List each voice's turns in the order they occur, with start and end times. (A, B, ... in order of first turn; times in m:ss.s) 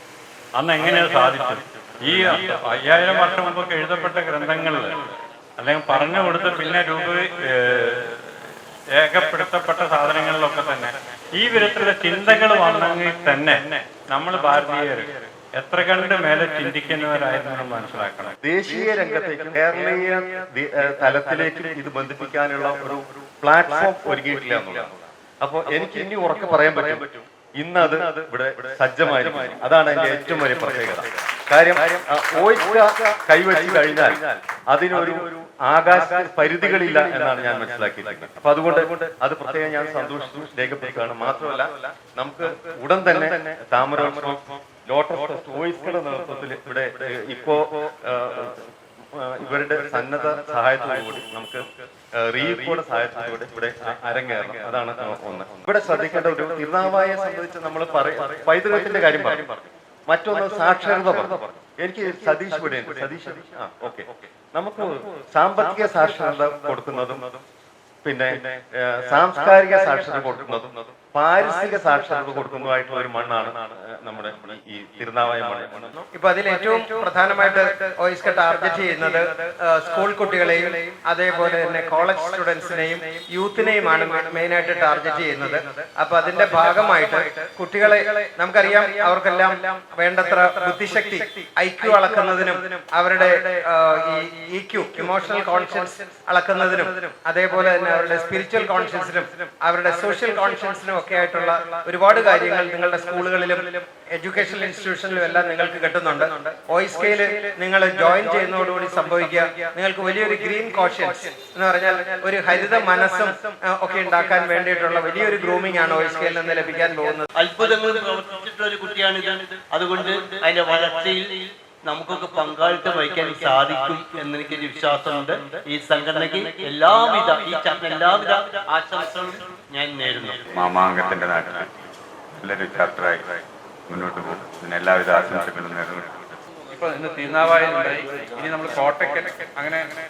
0:00.6-0:18.4 A
0:18.4-0:48.6 B
0:49.2-0:51.7 B
0:52.2-0:59.6 B
1:00.1-1:07.4 B
1:08.0-1:15.9 B
1:15.9-1:57.2 C
1:57.4-2:10.5 D
2:10.5-2:11.7 E
2:12.4-2:16.3 E
2:16.7-2:19.9 F